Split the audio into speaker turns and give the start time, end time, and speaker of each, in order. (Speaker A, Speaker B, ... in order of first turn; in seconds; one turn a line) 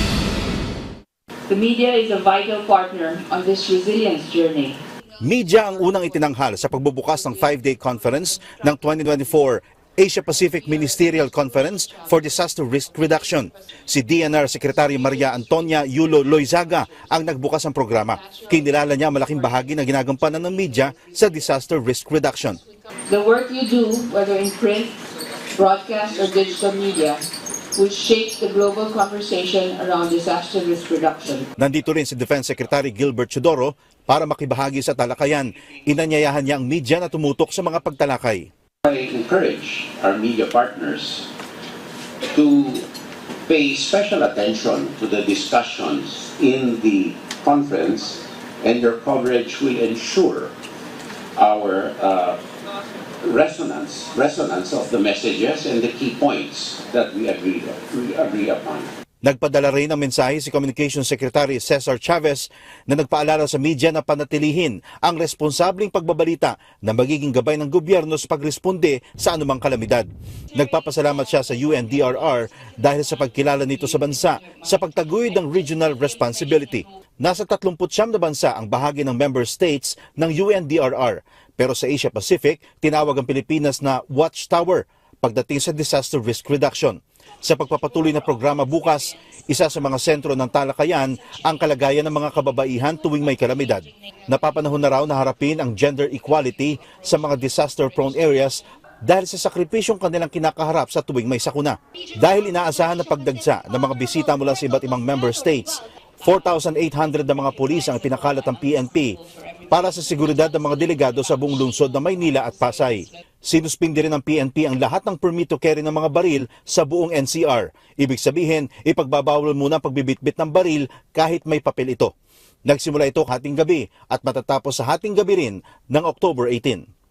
Speaker A: 1.5-4.8
Speaker B: 5.2-22.6
Speaker A: 23.1-25.0
Speaker A: 25.5-27.2
Speaker A: 27.8-31.5
Speaker B: 31.6-38.5
Speaker C: 38.9-41.3
Speaker C: 42.3-42.9
Speaker C: 43.4-50.5
Speaker C: 51.4-52.4
Speaker C: 53.2-58.9
Speaker B: 59.2-122.1
Speaker B: 122.7-126.8